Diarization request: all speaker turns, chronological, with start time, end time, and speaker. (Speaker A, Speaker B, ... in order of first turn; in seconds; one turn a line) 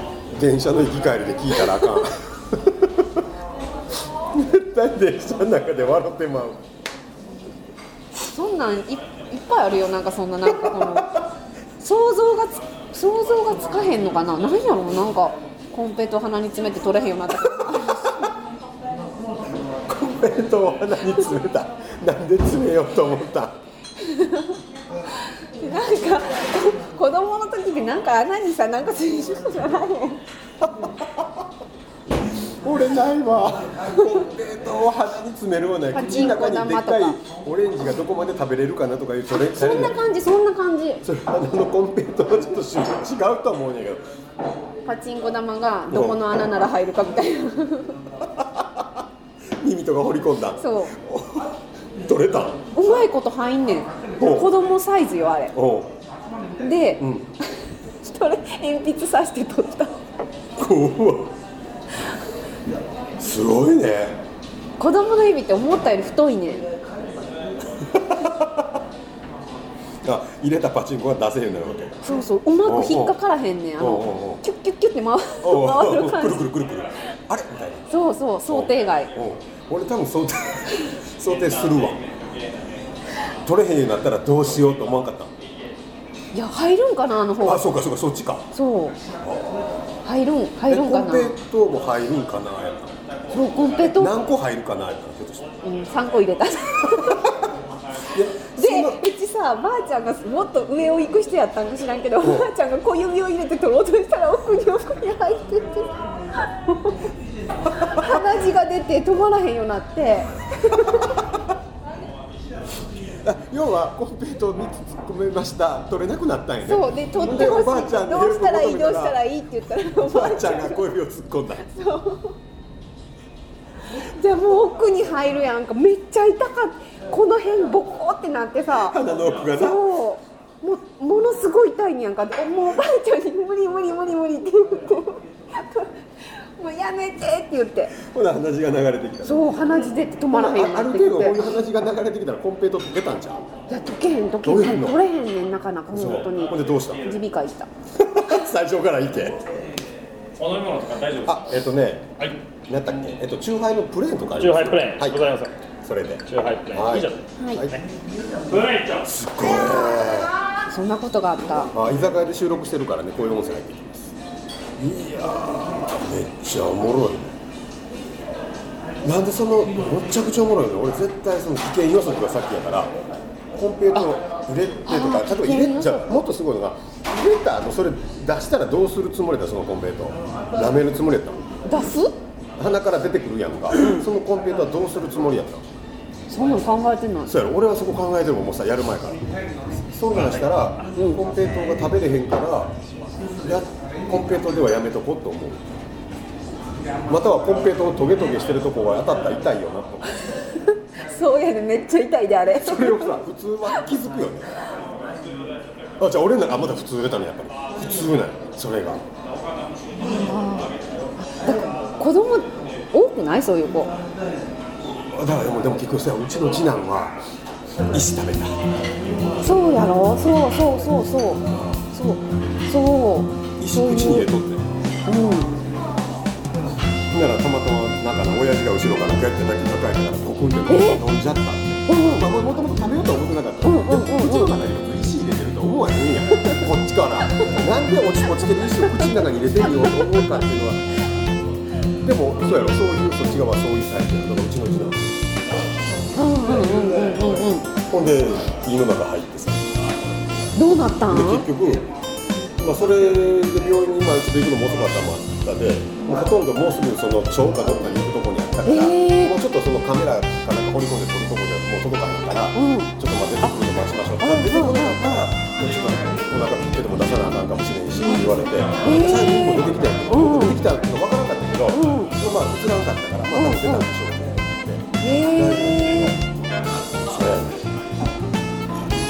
Speaker A: 0.3-3.2
Speaker A: 4.3-6.6
Speaker B: 8.1-11.1
Speaker A: 10.5-11.3
Speaker B: 11.8-18.3
Speaker A: 19.9-23.6
Speaker B: 24.0-24.6
Speaker B: 25.1-30.2
Speaker A: 30.7-31.1
Speaker A: 32.6-40.0
Speaker B: 35.9-37.2
Speaker B: 39.5-41.0
Speaker A: 41.0-44.0
Speaker B: 44.9-48.0
Speaker A: 45.9-46.2
Speaker A: 48.4-49.0
Speaker A: 49.6-52.7
Speaker B: 50.6-50.9
Speaker B: 52.8-55.5
Speaker A: 54.2-54.5
Speaker A: 55.5-55.9
Speaker B: 56.6-57.1
Speaker A: 57.0-57.3
Speaker B: 58.0-60.0
Speaker A: 60.6-61.3
Speaker A: 63.2-64.2
Speaker B: 64.8-66.7
Speaker A: 67.8-68.8
Speaker A: 70.0-72.0
Speaker B: 72.0-76.4
Speaker A: 72.7-73.2
Speaker A: 73.8-74.4
Speaker A: 75.4-77.9
Speaker B: 77.9-79.1
Speaker A: 78.5-82.0
Speaker A: 83.4-85.3
Speaker B: 86.3-87.7
Speaker A: 87.4-88.5
Speaker B: 88.5-89.0
Speaker A: 89.2-89.6
Speaker B: 90.0-91.4
Speaker A: 90.7-92.9
Speaker B: 93.3-94.2
Speaker A: 93.8-95.5
Speaker B: 95.6-97.3
Speaker A: 96.9-97.5
Speaker A: 98.1-99.0
Speaker B: 98.5-105.9
Speaker A: 102.2-102.5
Speaker B: 106.5-106.9
Speaker B: 107.7-111.1
Speaker A: 113.2-119.2
Speaker B: 116.6-120.8
Speaker A: 119.7-121.7
Speaker B: 121.6-122.3
Speaker B: 124.0-129.0
Speaker A: 128.8-129.8
Speaker B: 129.5-137.9
Speaker A: 138.0-139.6
Speaker B: 139.2-141.4
Speaker A: 140.3-143.5
Speaker B: 143.7-147.7
Speaker A: 144.4-145.0
Speaker A: 145.9-147.1
Speaker A: 148.0-149.5
Speaker C: 150.4-151.2
Speaker A: 151.2-152.1
Speaker A: 152.7-157.8
Speaker C: 154.4-155.5
Speaker C: 156.3-157.1
Speaker B: 157.4-157.7
Speaker A: 159.0-160.3
Speaker B: 160.7-161.7
Speaker A: 161.7-164.0
Speaker A: 164.8-167.4
Speaker A: 169.0-172.9
Speaker A: 173.5-181.4
Speaker B: 174.9-176.2
Speaker B: 181.7-182.2
Speaker A: 182.6-185.6
Speaker B: 183.8-184.1
Speaker B: 186.3-187.3
Speaker A: 187.3-189.3
Speaker A: 189.8-192.7
Speaker A: 193.4-195.6
Speaker A: 197.1-200.1
Speaker B: 200.9-203.2
Speaker A: 202.6-204.6
Speaker A: 206.0-209.0
Speaker B: 210.0-213.9
Speaker A: 215.1-217.2
Speaker A: 217.9-218.6
Speaker B: 219.4-224.3
Speaker A: 221.5-221.8
Speaker A: 223.6-224.6
Speaker B: 225.1-225.5
Speaker A: 227.1-240.8
Speaker B: 230.7-231.0
Speaker B: 231.9-232.3
Speaker B: 233.6-234.6
Speaker B: 239.8-240.2
Speaker A: 242.0-245.1
Speaker B: 246.2-247.7
Speaker A: 247.9-249.6
Speaker B: 250.6-251.5
Speaker A: 251.1-251.9
Speaker A: 252.6-276.2
Speaker B: 258.6-259.4
Speaker B: 262.5-262.9
Speaker B: 264.2-265.0
Speaker B: 268.8-270.6
Speaker B: 271.7-272.1
Speaker B: 273.3-273.9
Speaker B: 275.0-276.2
Speaker A: 277.1-277.6